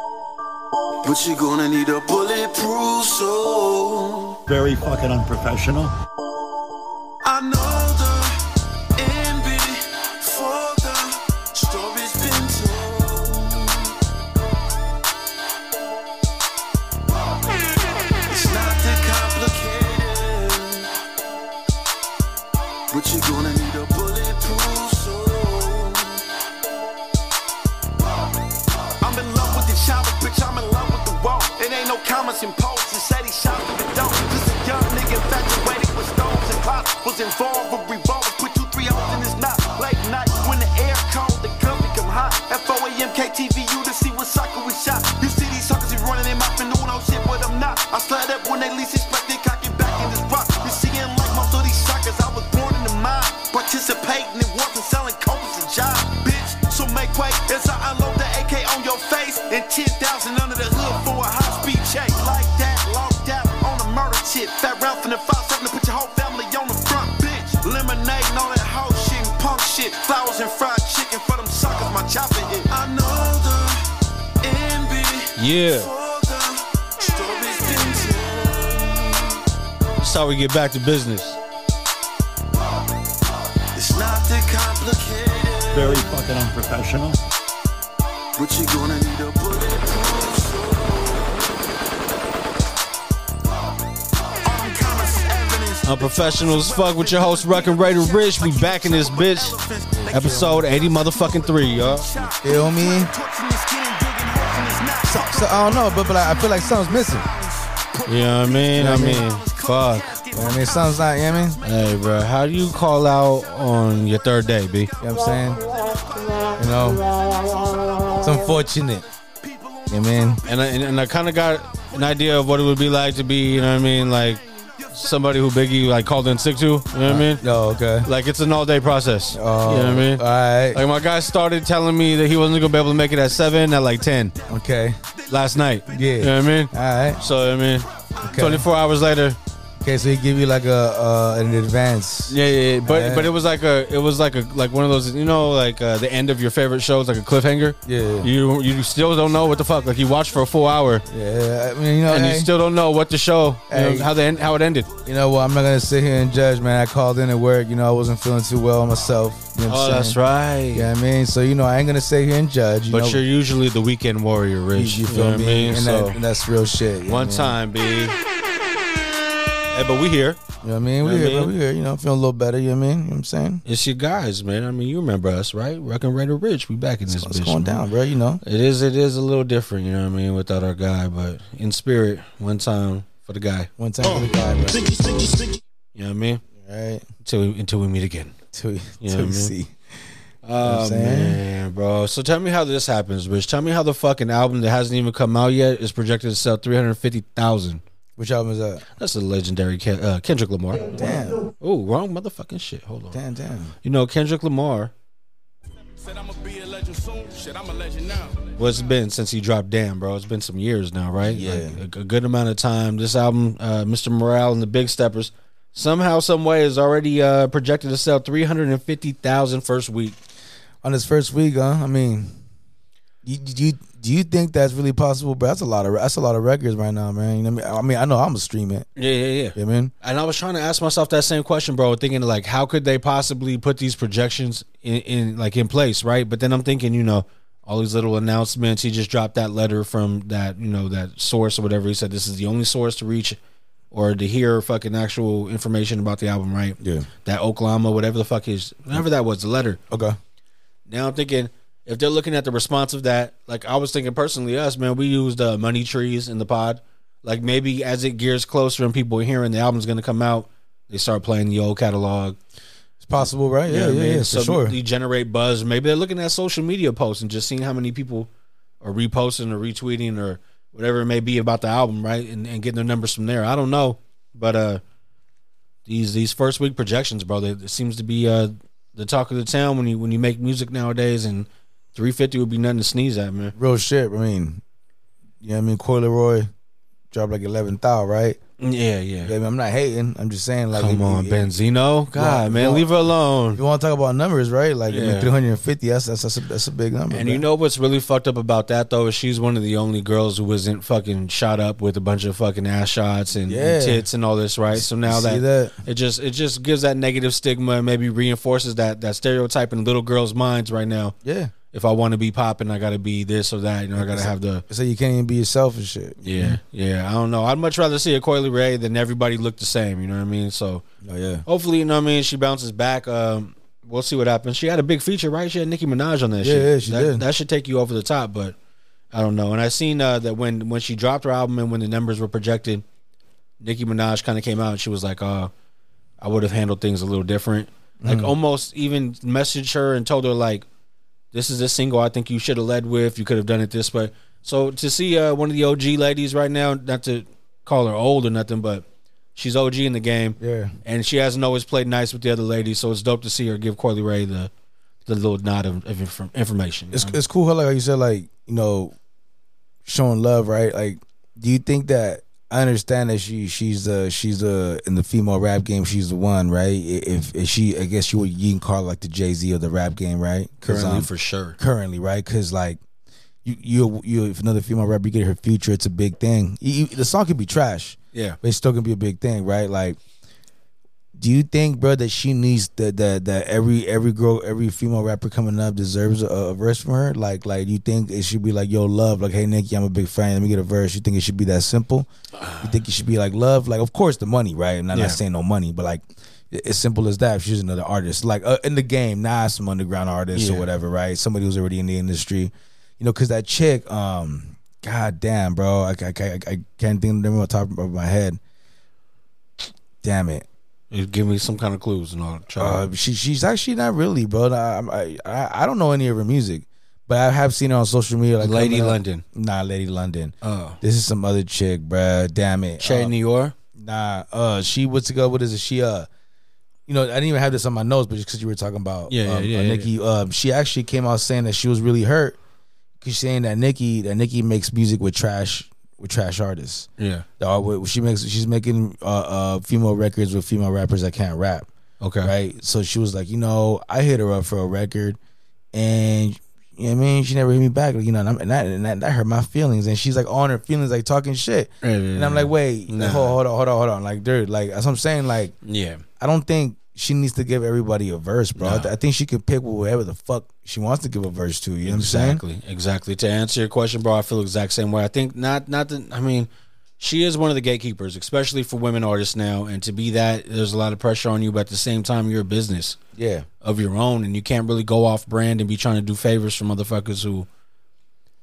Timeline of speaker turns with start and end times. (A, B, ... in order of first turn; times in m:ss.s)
0:01.0-0:04.4 A
0:04.5-0:05.9 B
0:07.2-0:08.4 A
0:09.0-0:13.9 A
0:18.3-0:20.9 A
0:22.9-0:26.2 A
0:29.0-1:13.8 A
1:14.4-1:19.4 A
1:15.4-1:15.9 C
1:20.0-1:21.4 C
1:23.7-1:26.1 A
1:25.7-1:27.2 B
1:28.4-1:31.6 A
1:34.4-1:51.2 A
1:35.8-1:39.6 C
1:39.9-1:40.7 D
1:40.1-1:42.0 C
1:42.4-1:43.1 D
1:45.1-1:47.3 D
1:48.0-1:50.2 C
1:48.7-1:49.3 D
1:50.3-1:51.6 D
1:51.6-1:54.9 C
1:55.0-1:58.6 A
1:55.0-1:55.6 D
1:56.6-1:57.0 D
1:58.2-1:59.0 D
1:59.4-2:02.3 A
1:59.9-2:00.4 D
2:00.4-2:04.4 C
2:04.9-2:07.4 C
2:07.0-2:08.1 D
2:08.0-2:14.3 C
2:09.3-2:10.8 D
2:14.5-2:15.0 D
2:15.3-2:19.4 C
2:15.8-2:17.2 D
2:18.2-2:18.6 D
2:19.8-2:23.3 D
2:22.3-2:31.0 C
2:27.8-2:28.3 D
2:31.1-2:32.5 D
2:32.1-2:34.9 C
2:33.7-2:34.1 D
2:35.0-2:40.2 D
2:39.7-2:40.9 C
2:40.7-2:43.2 D
2:42.9-2:46.2 C
2:44.7-2:47.6 D
2:47.0-2:48.2 C
2:49.7-2:50.4 C
2:50.6-2:53.6 D
2:51.0-2:51.5 C
2:53.6-2:57.8 C
2:57.1-2:58.4 D
2:58.4-3:03.7 C
3:03.8-3:04.8 D
3:04.7-3:05.6 B
3:05.9-3:06.4 C
3:06.6-3:07.0 D
3:07.2-3:08.3 C
3:08.5-3:09.7 D
3:09.0-3:09.5 C
3:10.4-3:17.8 C
3:10.6-3:11.4 D
3:18.2-3:18.8 D
3:19.0-3:23.2 C
3:20.9-3:21.4 D
3:23.1-3:23.7 D
3:23.8-3:24.9 C
3:26.0-3:28.5 E
3:28.6-3:40.2 C
3:31.2-3:31.8 D
3:40.8-3:42.3 D
3:43.2-3:48.9 D
3:49.0-4:03.4 C
3:49.5-3:49.9 D
4:03.9-4:09.8 C
4:06.8-4:07.1 D
4:09.9-4:10.2 D
4:10.9-4:22.4 C
4:23.0-4:24.8 D
4:23.6-4:28.3 C
4:28.8-4:34.8 C
4:35.8-4:43.5 C
4:43.6-4:44.6 D
4:45.4-4:46.5 D
4:47.1-4:48.4 D
4:48.6-4:49.3 C
4:49.2-4:51.5 D
4:50.7-4:53.6 C
4:52.1-4:52.9 D
4:53.5-4:57.4 D
4:54.9-4:55.3 C
4:57.1-5:11.1 C
5:03.4-5:04.0 D
5:04.7-5:05.8 D
5:11.2-5:11.5 D
5:11.7-5:14.6 C
5:14.0-5:16.6 D
5:16.2-5:20.8 C
5:21.0-5:21.4 D
5:21.4-5:28.6 C
5:26.4-5:27.2 D
5:29.1-5:32.8 C
5:33.6-5:35.5 C
5:36.2-5:40.6 C
5:38.0-5:38.3 D
5:41.3-5:48.8 C
5:49.4-5:54.5 C
5:50.4-5:50.7 D
5:55.1-5:57.2 C
5:56.9-5:58.9 D
5:59.8-6:12.8 D
6:10.6-6:11.6 C
6:13.4-6:20.0 D
6:21.2-6:32.1 D
6:32.4-6:32.7 C
6:32.6-6:48.4 D
6:34.9-6:35.2 C
6:40.3-6:40.7 C
6:50.0-6:50.4 D
6:50.9-6:52.8 C
6:52.6-7:03.1 D
6:58.4-6:59.2 C
7:00.4-7:00.8 C
7:02.8-7:03.5 C
7:03.8-7:06.1 D
7:06.9-7:12.4 D
7:09.1-7:09.9 C
7:13.0-7:16.9 D
7:17.0-7:17.2 C
7:17.4-7:21.7 D
7:22.0-7:22.3 C
7:22.2-7:25.2 D
7:25.7-7:35.5 D
7:31.8-7:33.4 C
7:35.6-7:36.0 C
7:36.2-7:42.4 D
7:38.6-7:38.9 C
7:41.8-7:53.0 C
7:53.2-7:53.5 D
7:53.6-7:57.5 C